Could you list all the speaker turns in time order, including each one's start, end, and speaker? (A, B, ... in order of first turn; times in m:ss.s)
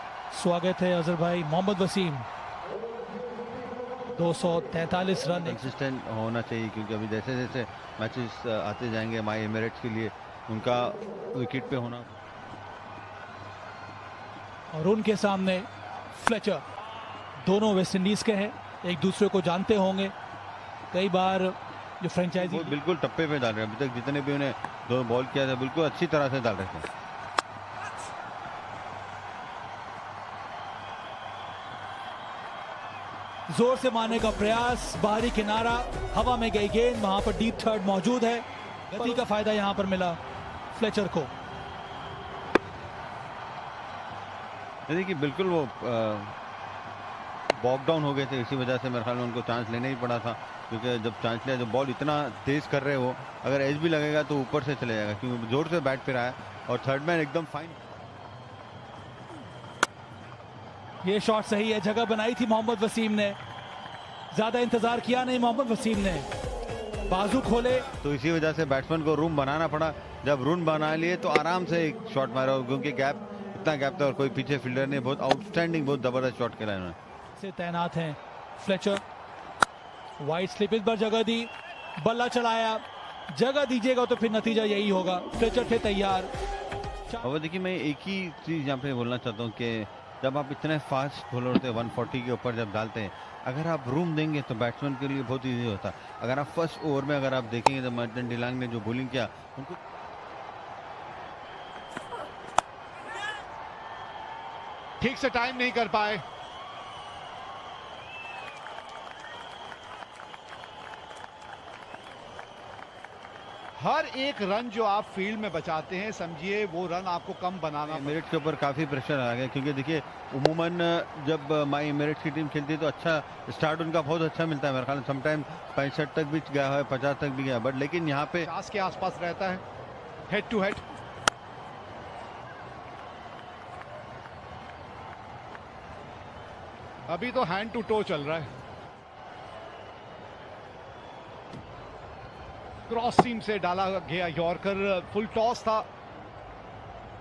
0:00.3-0:02.3 A
0:04.2-0:05.7 A
0:05.3-0:12.1 B
0:14.7-0:16.6 A
0:17.4-0:20.1 A
0:20.9-0:22.8 A
0:22.4-0:26.9 B
0:33.5-0:38.4 A
0:38.9-0:39.2 C
0:39.0-0:40.2 A
0:40.7-0:41.3 A
0:44.9-0:46.4 B
0:47.6-0:57.8 B
1:01.0-1:03.4 A
1:04.3-1:06.3 A
1:07.1-1:07.9 A
1:08.0-1:17.0 B
1:17.4-1:19.0 A
1:20.2-1:26.3 A
1:27.2-1:39.8 B
1:45.0-1:46.2 C
1:53.8-1:58.2 C
1:57.9-2:08.5 B
2:08.4-2:09.6 C
2:10.3-2:10.8 C
2:17.1-2:18.5 C
2:22.9-2:25.9 C